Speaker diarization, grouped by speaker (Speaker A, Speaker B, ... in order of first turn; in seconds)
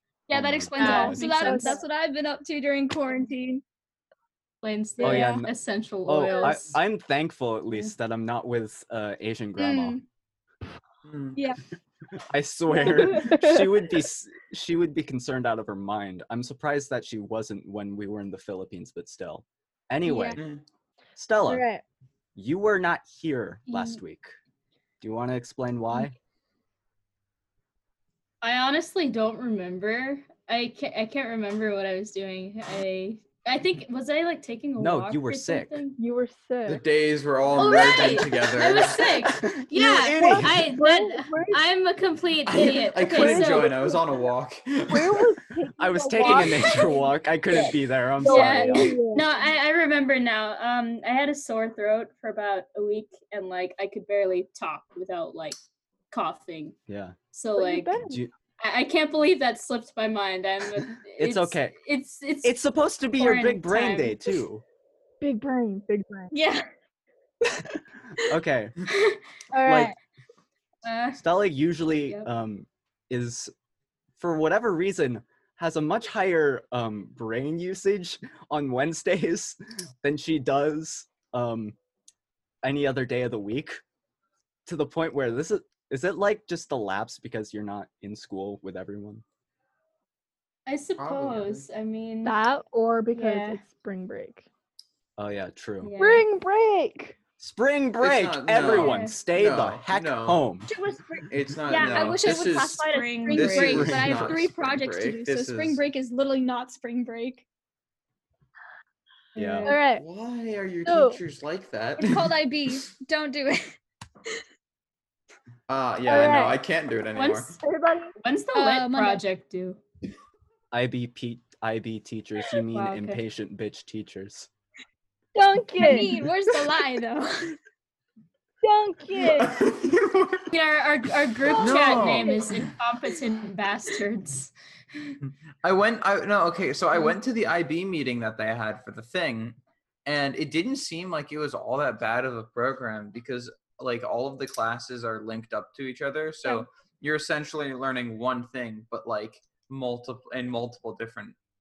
Speaker A: 0.3-3.6, 5.0-5.4, 9.6-10.0, 20.0-20.4, 37.6-38.4, 66.3-66.7, 100.7-107.5, 112.0-114.4, 118.5-119.2, 125.8-127.6
Speaker B: 0.3-1.3, 5.0-5.5, 6.1-10.0, 12.3-20.4, 21.2-21.6, 22.4-24.3, 25.0-26.1, 34.8-35.8, 39.7-40.7, 45.8-49.0, 56.9-57.2, 61.2-61.8, 62.4-64.6, 68.2-68.9, 69.6-69.9, 71.2-73.5, 74.2-81.8, 82.6-83.8, 84.7-89.2, 95.2-95.9, 97.4-100.7, 103.6-104.3, 109.3-109.7, 120.7-124.5
Speaker C: 0.8-1.8, 4.6-6.8, 23.7-24.0, 28.4-36.0, 37.5-43.8, 46.2-46.8, 48.2-55.6, 56.1-56.8, 57.3-58.0, 58.6-62.6, 63.2-64.3, 70.8-71.2, 90.7-92.4, 93.1-93.6, 95.8-96.2, 98.7-99.2, 101.8-103.9, 109.3-109.8, 116.2-116.4, 117.2-117.6, 118.2-119.8, 122.7-123.2, 130.5-134.5
Speaker D: 0.8-1.8, 12.8-13.7, 21.4-21.8, 36.0-36.8, 40.2-41.6, 42.6-44.2, 44.9-49.2, 57.6-58.2, 65.2-66.3, 69.5-70.0, 92.2-94.5, 96.0-97.2, 109.7-110.0, 110.8-111.2, 116.1-116.6, 117.6-118.2, 125.3-126.2, 128.6-129.6
Speaker E: 11.0-11.4, 36.7-39.4, 42.5-45.3, 91.0-91.7, 98.0-100.4, 101.3-105.8, 110.0-112.7, 115.7-117.5, 129.2-130.5, 131.5-132.7, 135.2-151.3